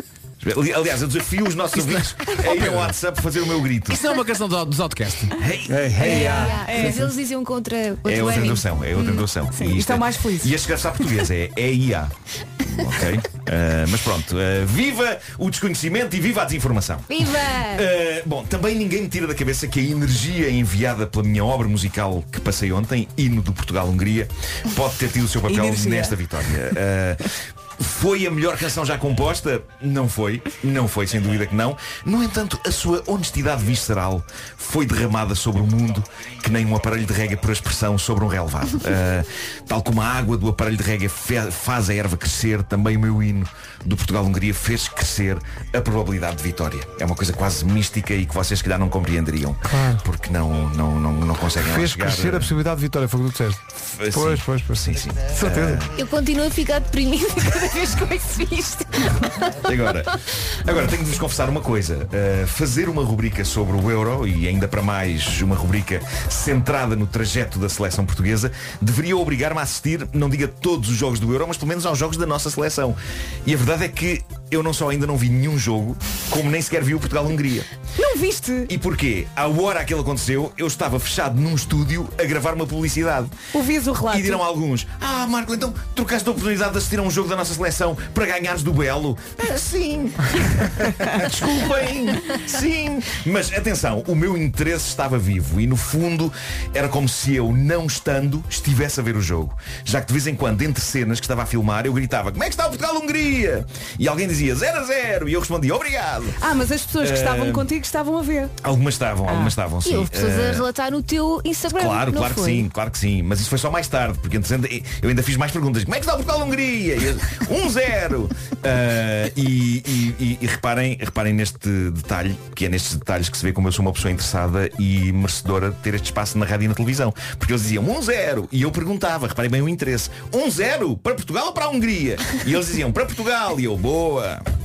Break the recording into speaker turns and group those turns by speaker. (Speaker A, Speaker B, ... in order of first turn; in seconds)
Speaker A: 0.4-4.0, 5.4-6.5, 8.0-52.5, 53.9-55.9, 59.6-77.7, 78.7-83.3, 84.0-106.4, 107.0-107.7, 108.6-110.7, 111.7-134.4
Speaker B: 1.7-3.0, 3.9-5.3
Speaker C: 5.7-6.8, 49.6-50.0, 51.6-55.8
Speaker D: 6.0-8.6, 17.1-17.9, 55.9-59.9, 109.8-112.7
Speaker E: 6.0-7.0, 9.0-10.5, 25.5-26.2, 78.0-78.7, 83.5-84.4, 106.4-108.5, 109.3-109.5